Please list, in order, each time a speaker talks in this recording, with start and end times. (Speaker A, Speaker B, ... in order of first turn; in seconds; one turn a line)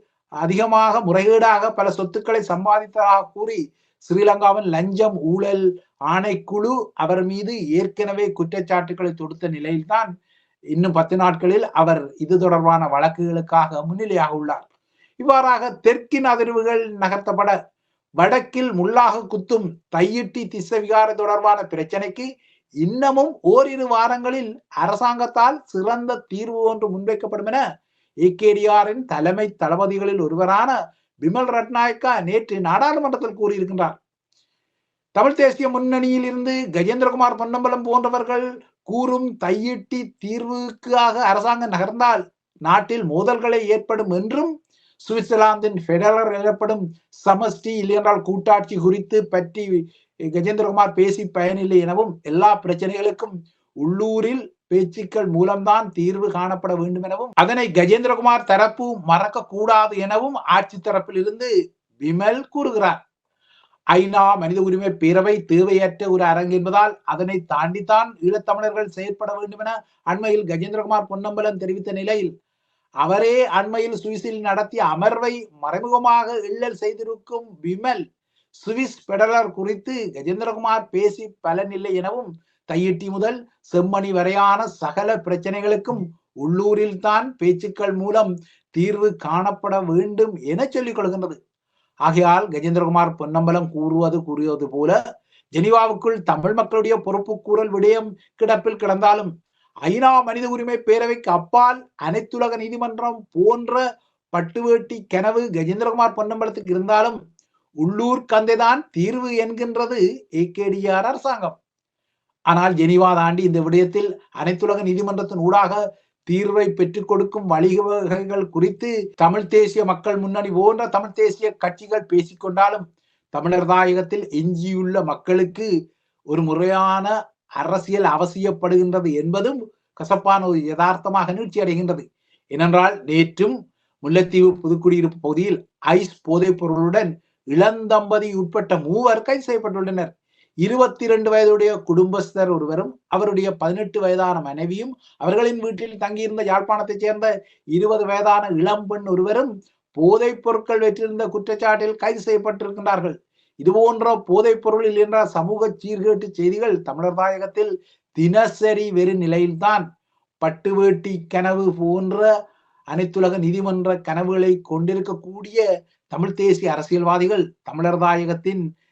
Speaker A: 0.4-10.1
Speaker A: 10.7-14.7
Speaker A: 15.2-17.5
Speaker A: 18.2-22.3
Speaker A: 22.8-27.6
Speaker A: 28.2-30.7
Speaker A: 31.2-34.0
Speaker A: 35.2-44.5
Speaker A: 45.0-49.8
Speaker A: 50.3-61.5
Speaker A: 62.0-63.0
Speaker A: 63.9-72.3
Speaker A: 73.0-78.0
Speaker A: 78.5-91.4
Speaker A: 92.0-95.0
Speaker A: 95.5-99.3
Speaker A: 99.8-103.8
Speaker A: 104.3-107.2
Speaker A: 107.8-111.5
Speaker A: 112.5-122.8
Speaker A: 123.3-125.7
Speaker A: 126.3-140.1
Speaker A: 140.6-159.8
Speaker A: 160.4-162.2
Speaker A: 162.9-168.6